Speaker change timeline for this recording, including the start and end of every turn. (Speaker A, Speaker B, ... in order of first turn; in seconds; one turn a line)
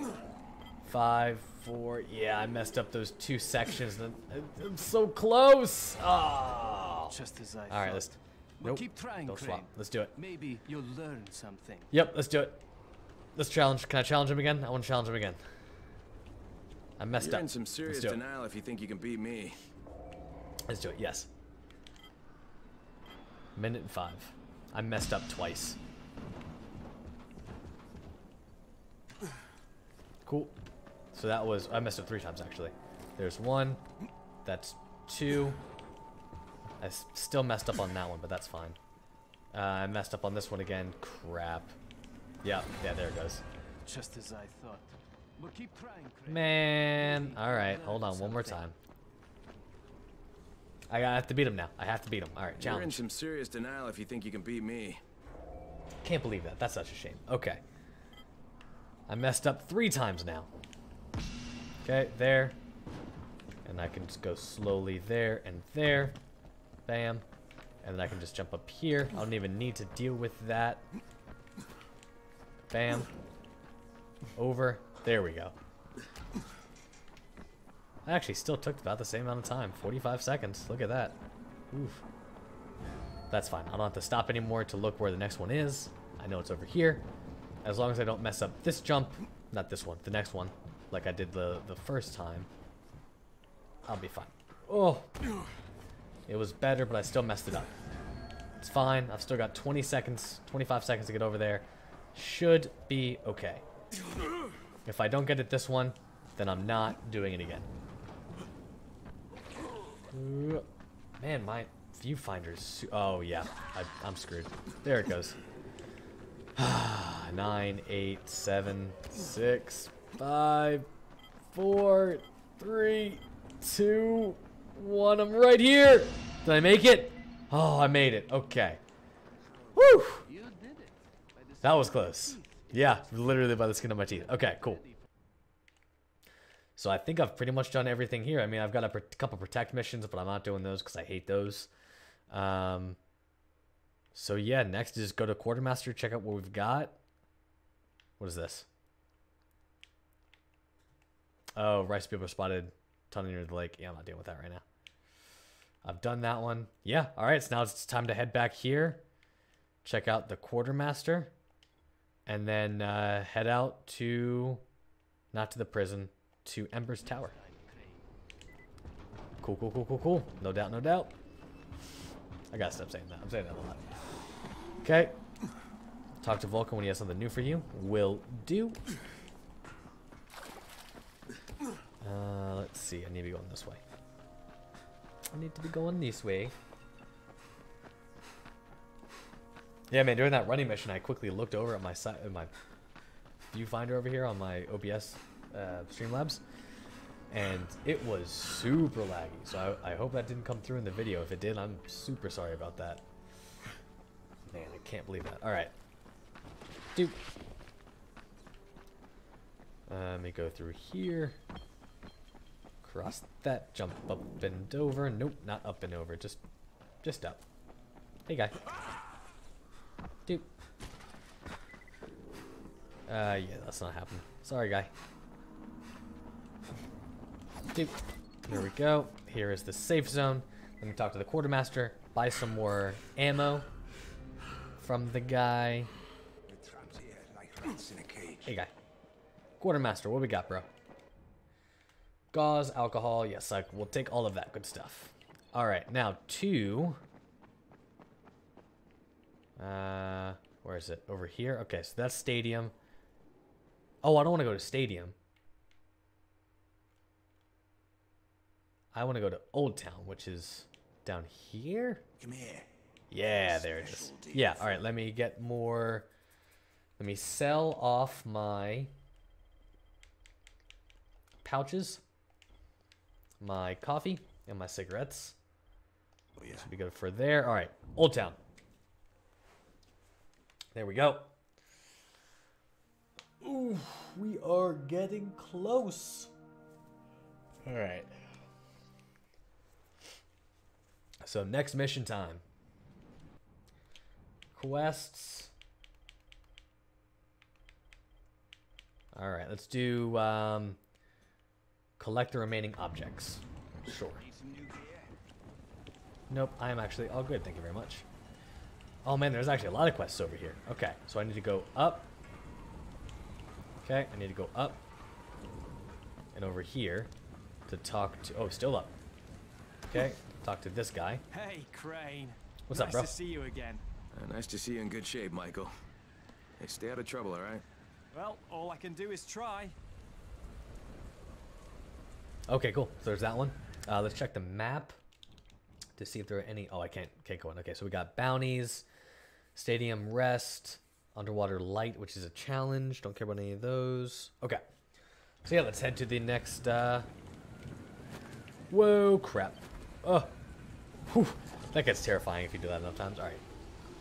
Speaker A: 0.8-7.2
Speaker B: 7.1-11.9
Speaker A: 7.7-10.1
Speaker A: 11.9-12.6
Speaker A: 13.4-15.4
Speaker A: 17.0-18.2
Speaker C: 17.1-19.6
Speaker A: 20.7-21.3
Speaker A: 23.6-25.8
Speaker A: 30.2-30.6
Speaker A: 31.1-33.8
Speaker A: 34.5-35.6
Speaker A: 36.8-38.8
Speaker A: 39.5-41.8
Speaker A: 42.4-43.4
Speaker B: 43.8-48.6
Speaker A: 46.3-48.8
Speaker A: 50.9-53.0
Speaker C: 52.6-55.0
Speaker A: 56.0-57.6
Speaker A: 59.1-60.5
Speaker A: 61.8-62.6
Speaker A: 63.6-66.2
Speaker A: 66.9-67.2
Speaker A: 67.8-70.9
Speaker A: 72.7-73.1
Speaker A: 74.4-75.5
Speaker A: 78.0-81.2
Speaker A: 81.7-82.0
Speaker A: 83.3-87.1
Speaker A: 87.6-92.5
Speaker A: 93.9-95.2
Speaker A: 96.3-97.7
Speaker A: 98.6-103.7
Speaker A: 104.8-107.7
Speaker A: 110.1-110.7
Speaker A: 111.2-115.4
Speaker A: 116.6-120.9
Speaker A: 121.5-128.8
Speaker A: 129.8-130.3
Speaker B: 130.2-132.5
Speaker A: 131.6-134.8
Speaker B: 134.1-134.9
Speaker A: 136.8-141.7
Speaker A: 142.3-143.0
Speaker A: 144.1-147.0
Speaker A: 148.2-148.7
Speaker A: 151.6-154.7
Speaker A: 155.8-159.0
Speaker A: 159.8-161.3
Speaker A: 162.3-164.6
Speaker A: 165.3-167.3
Speaker B: 167.1-168.0
Speaker A: 169.4-171.1
Speaker A: 172.5-173.9
Speaker A: 174.8-175.2
Speaker A: 176.2-178.8
Speaker A: 182.0-183.8
Speaker A: 185.3-186.6
Speaker A: 189.9-192.5
Speaker A: 193.5-196.4
Speaker A: 197.3-203.1
Speaker A: 204.5-205.7
Speaker A: 209.9-211.4
Speaker A: 212.8-216.4
Speaker A: 217.0-217.4
Speaker A: 218.3-218.6
Speaker A: 223.1-224.9
Speaker A: 228.5-233.7
Speaker A: 234.8-235.9
Speaker D: 236.5-238.6
Speaker A: 238.4-238.7
Speaker A: 239.6-240.7
Speaker A: 242.3-247.0
Speaker A: 249.6-252.7
Speaker A: 254.0-255.2
Speaker A: 258.9-262.0
Speaker D: 262.2-262.7
Speaker A: 263.1-266.1
Speaker D: 263.3-264.8
Speaker A: 267.0-268.9
Speaker A: 271.4-272.0
Speaker A: 273.4-275.4
Speaker A: 276.5-278.4
Speaker A: 280.7-281.3
Speaker A: 283.4-286.3
Speaker A: 287.6-288.1
Speaker A: 291.2-292.4
Speaker A: 294.5-295.5
Speaker A: 299.1-300.8
Speaker A: 302.0-304.2
Speaker D: 304.2-305.1
Speaker A: 306.3-308.1
Speaker A: 309.0-312.1
Speaker A: 313.8-314.8
Speaker A: 316.3-317.1
Speaker A: 317.7-319.0
Speaker A: 319.9-321.2
Speaker B: 321.3-323.8
Speaker A: 322.7-323.1
Speaker C: 324.1-325.7
Speaker C: 326.6-327.6
Speaker B: 328.1-329.8
Speaker A: 332.5-335.0
Speaker A: 336.0-338.9
Speaker A: 339.6-344.6
Speaker A: 345.4-347.1
Speaker A: 348.7-350.3
Speaker A: 351.1-353.4